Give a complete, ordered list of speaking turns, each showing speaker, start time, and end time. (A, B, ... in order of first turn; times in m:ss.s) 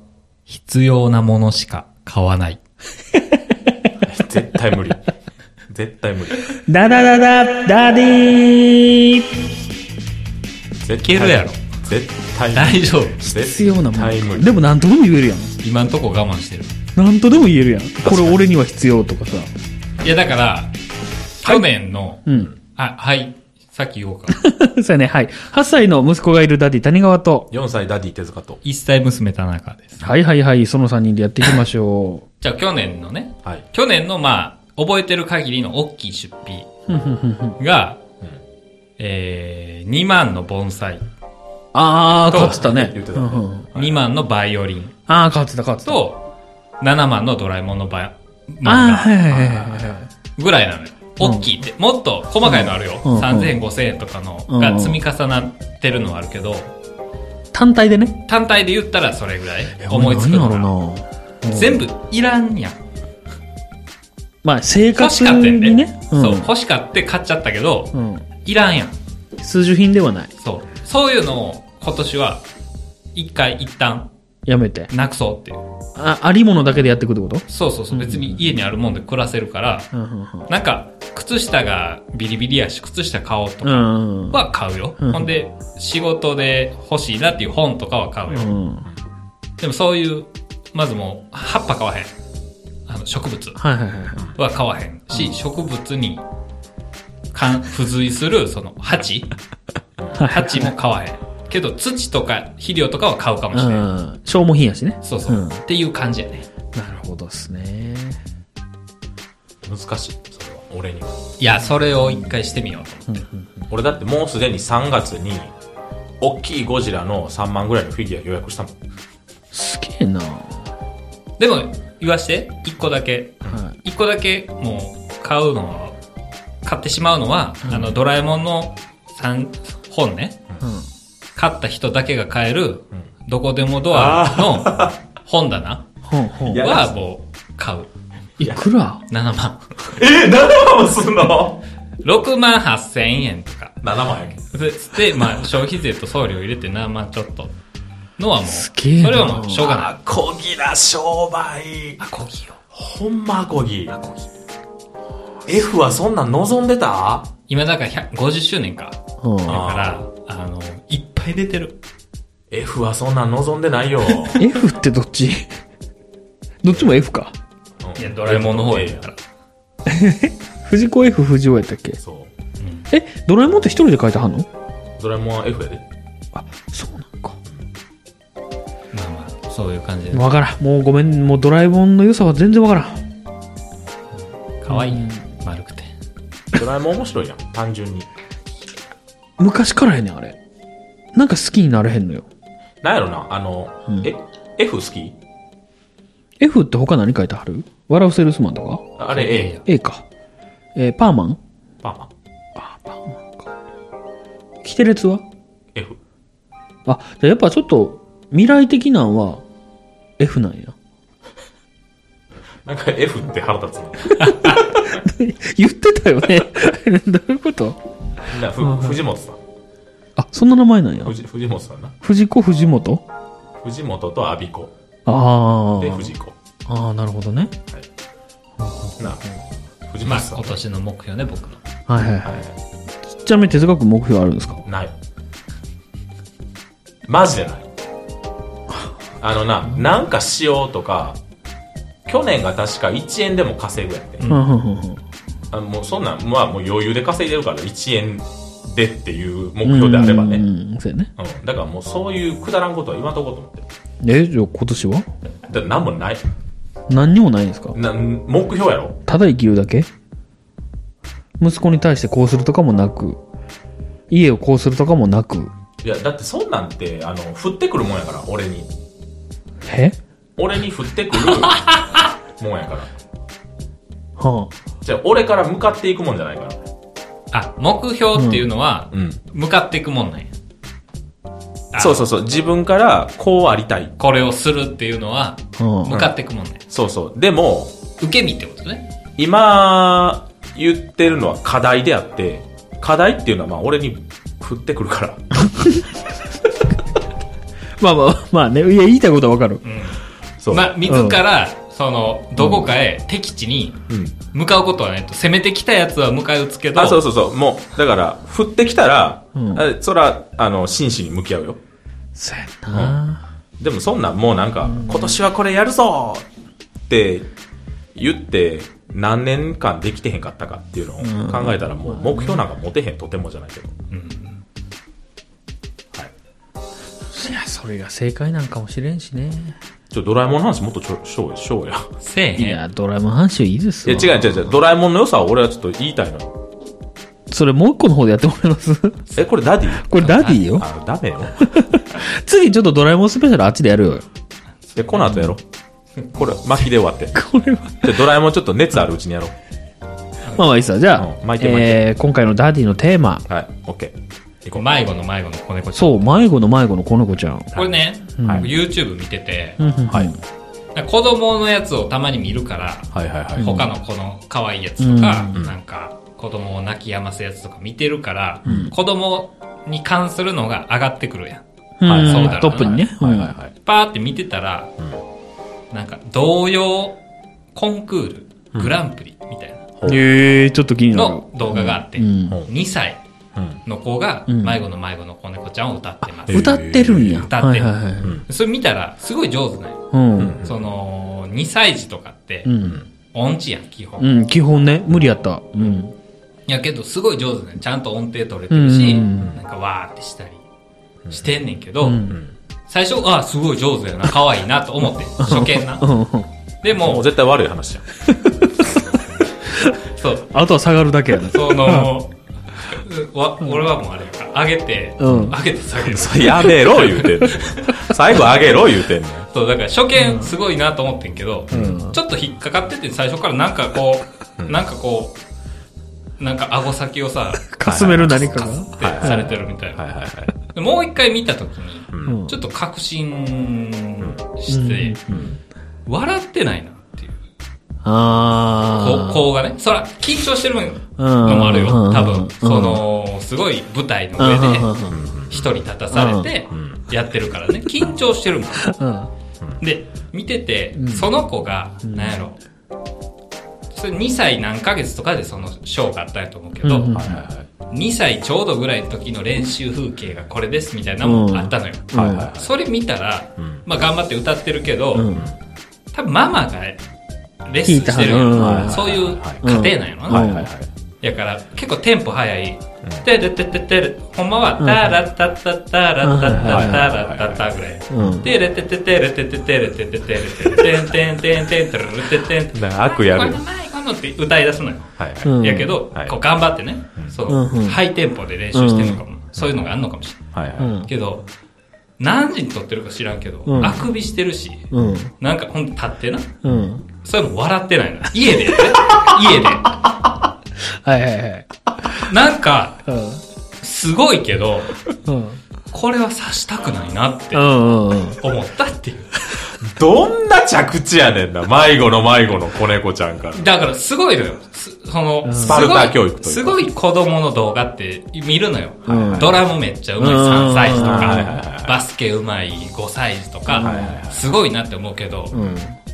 0:00.5-0:02.6 A
0:03.1-0:03.9 B
0:04.0-0:05.1 C
0:05.7-0:06.6 C
0:06.6-0:09.4 B
0:10.8-0:14.5 C
0:11.0-0:11.6 A
0:12.5-0:13.2 A
0:13.2-0:15.6 B
0:15.6-0:16.7 A
0:17.0-0:19.5 B
0:18.0-0:18.4 C
0:20.0-0:20.7 A
0:21.4-0:24.4 A
0:22.2-0:22.5 B
0:24.3-0:27.5 B
0:27.5-0:28.6 C
0:28.6-0:30.0 A
0:30.0-0:32.3 B
0:32.4-0:36.8 A
0:36.9-0:37.6 B
0:37.6-0:38.0 A
0:39.0-0:41.0 A
0:41.7-0:43.7 B
0:42.3-0:42.6 A
0:42.3-0:44.1 C
0:43.7-0:45.0 A
0:45.1-0:46.0 B
0:45.8-0:46.2 A
0:46.8-0:56.7 A
0:48.6-0:50.1 B
0:51.2-0:51.4 B
0:52.4-0:53.5 B
0:54.5-0:55.0 B
0:57.5-0:58.2 B
0:58.3-1:00.7 A
0:59.8-1:01.8 B
1:01.4-1:02.8 A
1:04.4-1:06.5 B
1:04.9-1:07.9 A
1:07.9-1:08.2 B
1:08.4-1:09.0 A
1:09.4-1:10.3 B
1:10.4-1:12.4 A
1:13.1-1:14.1 A
1:14.4-1:14.9 B
1:14.9-1:15.6 A
1:15.9-1:18.4 B
1:17.5-1:19.9 A
1:19.9-1:20.5 B
1:20.5-1:28.6 A
1:23.6-1:24.4 B
1:25.0-1:25.3 B
1:28.3-1:28.9 B
1:29.6-1:32.1 A
1:32.9-1:33.6 A
1:33.6-1:34.3 B
1:34.4-1:36.2 A
1:37.3-1:39.3 A
1:40.1-1:40.7 B
1:40.3-1:43.9 A
1:43.5-1:45.6 B
1:45.0-1:46.4 A
1:46.7-1:48.2 B
1:49.6-1:51.2 C
1:51.4-1:53.2 A
1:53.1-1:53.7 B
1:53.7-1:55.5 C
1:56.2-1:58.7 C
1:59.5-2:00.7 B
2:01.4-2:05.9 A
2:03.5-2:03.8 B
2:06.6-2:10.4 A
2:10.6-2:10.9 B
2:11.4-2:15.8 A
2:13.9-2:15.0 C
2:16.0-2:16.7 B
2:16.5-2:16.9 C
2:16.5-2:17.9 A
2:18.4-2:19.0 B
2:18.4-2:18.7 C
2:19.1-2:19.9 A
2:19.9-2:21.6 C
2:22.0-2:23.8 A
2:23.8-2:24.5 C
2:24.5-2:27.5 A
2:28.2-2:30.0 A
2:28.4-2:29.7 B
2:29.4-2:32.0 C
2:32.0-2:32.6 A
2:32.7-2:34.2 C
2:35.4-2:37.3 C
2:37.5-2:41.8 A
2:39.2-2:39.6 B
2:39.5-2:40.0 C
2:42.5-2:44.4 C
2:44.4-2:45.5 B
2:46.6-2:47.3 B
2:46.6-2:47.0 C
2:47.8-2:49.1 C
2:48.0-2:49.2 A
2:49.8-2:52.0 B
2:52.0-2:52.3 C
2:52.6-2:52.9 A
2:52.9-2:54.5 B
2:55.0-2:55.8 C
2:56.3-2:57.4 B
2:58.9-3:00.3 A
3:00.1-3:03.0 B
3:04.6-3:05.9 A
3:04.7-3:05.2 B
3:06.5-3:08.0 C
3:09.4-3:10.4 B
3:11.1-3:12.2 B
3:12.8-3:15.1 C
3:16.4-3:18.9 B
3:19.0-3:19.6 C
3:19.1-3:19.6 A
3:19.6-3:20.0 B
3:20.8-3:21.4 B
3:21.8-3:22.1 C
3:22.6-3:23.5 B
3:24.6-3:25.2 B
3:26.8-3:29.4 B
3:30.2-3:30.8 B
3:32.6-3:34.6 C
3:34.2-3:37.8 B
3:34.2-3:34.6 A
3:38.3-3:39.4 C
3:38.6-3:39.0 B
3:40.2-3:41.1 B
3:41.0-3:41.9 C
3:42.0-3:43.0 B
3:43.6-3:44.7 C
3:45.0-3:46.1 B
3:45.8-3:46.4 C
3:46.6-3:47.5 B
3:48.6-3:49.4 B
3:49.9-3:50.6 C
3:50.0-3:51.6 A
3:51.9-3:52.4 B
3:52.2-3:52.5 C
3:53.1-3:54.6 B
3:54.6-3:54.9 C
3:57.1-3:57.7 C
3:59.2-4:01.2 C
4:02.0-4:04.4 C
4:04.3-4:05.0 B
4:05.5-4:10.4 C
4:09.6-4:11.1 B
4:11.2-4:13.7 C
4:14.0-4:15.1 B
4:15.5-4:16.2 C
4:16.9-4:17.8 B
4:17.7-4:19.0 C
4:19.1-4:19.9 B
4:21.4-4:23.2 B
4:24.1-4:25.5 B
4:25.8-4:28.7 C
4:29.6-4:30.0 B
4:30.4-4:32.9 C
4:31.4-4:31.8 A
4:34.2-4:34.5 B
4:34.8-4:36.6 C
4:37.3-4:40.3 A
4:38.1-4:38.4 B
4:38.9-4:39.2 C
4:41.7-4:42.0 A
4:41.8-4:43.9 C
4:44.0-4:46.6 A
4:45.6-4:46.1 B
4:46.7-4:47.8 C
4:48.0-4:48.8 A
4:49.2-4:55.4 C
4:55.4-4:55.9 B
4:57.8-4:59.6 B
4:59.6-5:03.8 A
5:00.4-5:00.8 C
5:00.8-5:01.2 B
5:02.4-5:02.7 B
5:03.9-5:04.2 C
5:04.3-5:07.0 A
5:06.7-5:11.6 C
5:09.4-5:09.6 B
5:12.1-5:13.2 B
5:12.7-5:13.0 C
5:13.6-5:16.2 C
5:14.6-5:15.2 B
5:16.9-5:17.3 C
5:17.9-5:23.7 C
5:21.0-5:22.4 B
5:23.9-5:24.4 A
5:27.1-5:29.6 B
5:29.9-5:31.9 C
5:32.0-5:32.6 A
5:32.4-5:34.3 B
5:33.8-5:36.4 C
5:37.3-5:39.0 B
5:39.2-5:41.6 C
5:39.7-5:40.7 B
5:39.9-5:40.4 A
5:41.4-5:44.0 B
5:44.8-5:45.4 C
5:45.0-5:45.3 B
5:46.1-5:47.2 C
5:47.1-5:48.0 B
5:47.8-5:49.3 C
5:50.4-5:53.3 B
5:51.0-5:51.8 C
5:53.3-5:54.6 C
5:54.5-5:56.1 A
5:55.7-5:57.5 B
5:57.5-5:58.5 C
5:57.5-5:59.6 A
5:58.2-5:58.5 B
5:59.6-6:00.2 B
5:59.8-6:00.1 C
6:00.7-6:12.8 A
6:02.9-6:03.6 C
6:03.4-6:03.7 B
6:04.8-6:05.4 B
6:08.4-6:08.7 B
6:08.4-6:08.7 C
6:11.8-6:13.3 B
6:11.8-6:13.5 C
6:13.6-6:14.7 A
6:15.7-6:17.0 A
6:17.5-6:19.6 A
6:19.8-6:20.0 C
6:19.8-6:22.4 B
6:20.9-6:23.0 A
6:23.4-6:23.6 C
6:23.6-6:26.6 A
6:24.3-6:24.6 B
6:26.3-6:28.2 B
6:26.3-6:27.3 C
6:27.3-6:29.8 A
6:28.0-6:28.2 C
6:29.9-6:30.4 B
6:30.2-6:30.6 C
6:30.4-6:32.5 A
6:32.4-6:32.8 B
6:32.6-6:32.8 C
6:33.1-6:34.1 A
6:34.0-6:35.9 B
6:36.5-6:40.4 A
6:38.5-6:39.4 B
6:41.0-6:41.3 C
6:41.1-6:42.1 A
6:41.8-6:42.2 B
6:42.7-6:45.9 A
6:45.2-6:46.3 B
6:46.6-6:47.1 A
6:46.8-6:47.9 C
6:48.0-6:48.7 B
6:49.4-6:49.8 B
6:49.8-6:50.3 A
6:50.3-6:51.9 B
6:51.2-6:57.9 A
6:55.0-6:55.4 B
6:55.0-6:59.3 C
6:59.3-7:05.2 A
7:00.0-7:00.3 B
7:01.5-7:01.8 C
7:01.5-7:02.0 B
7:06.2-7:07.5 A
7:07.5-7:09.3 B
7:07.6-7:10.3 C
7:08.1-7:09.8 A
7:10.5-7:15.0 A
7:11.9-7:12.2 C
7:12.0-7:12.4 B
7:14.5-7:15.3 B
7:15.1-7:15.4 C
7:15.9-7:17.2 A
7:17.8-7:19.3 B
7:18.7-7:24.7 A
7:21.0-7:22.8 B
7:24.2-7:25.0 B
7:24.9-7:25.5 C
7:25.3-7:28.8 A
7:25.9-7:26.3 B
7:26.5-7:26.8 C
7:28.6-7:29.1 B
7:29.6-7:32.4 A
7:30.8-7:31.1 B
7:31.8-7:32.2 B
7:33.7-7:36.9 A
7:36.6-7:37.2 B
7:36.9-7:37.5 C
7:37.7-7:45.1 A
7:41.0-7:42.3 B
7:41.9-7:42.5 C
7:43.4-7:43.6 C
7:44.9-7:45.3 B
7:45.9-7:46.8 A
7:47.4-7:50.4 A
7:47.6-7:50.5 B
7:48.3-7:49.5 C
7:50.1-7:50.7 C
7:51.0-8:10.2 A
7:54.6-7:55.0 B
7:56.0-7:56.9 B
7:56.3-7:58.3 C
7:57.9-7:58.3 B
8:02.5-8:03.4 C
8:05.0-8:05.4 C
8:05.2-8:05.7 B
8:07.3-8:07.8 B
8:08.5-8:09.0 B
8:10.3-8:10.8 C
8:10.6-8:10.9 B
8:10.8-8:11.2 A
8:12.0-8:16.3 A
8:13.4-8:13.9 B
8:14.7-8:15.1 B
8:14.7-8:15.1 C
8:16.4-8:16.8 B
8:17.0-8:19.7 A
8:20.6-8:21.9 B
8:22.0-8:22.8 A
8:22.8-8:23.2 B
8:23.6-8:24.8 A
8:25.0-8:25.4 B
8:25.7-8:27.5 A
8:27.3-8:28.2 B
8:28.2-8:29.1 A
8:29.6-8:33.5 C
8:33.3-8:45.4 A
8:35.2-8:35.6 B
8:35.4-8:36.7 C
8:38.8-8:39.4 B
8:38.9-8:39.4 C
8:40.0-8:41.4 B
8:40.7-8:41.8 C
8:43.5-8:44.0 B
8:43.6-8:44.3 C
8:45.3-8:45.8 B
8:45.3-8:45.6 C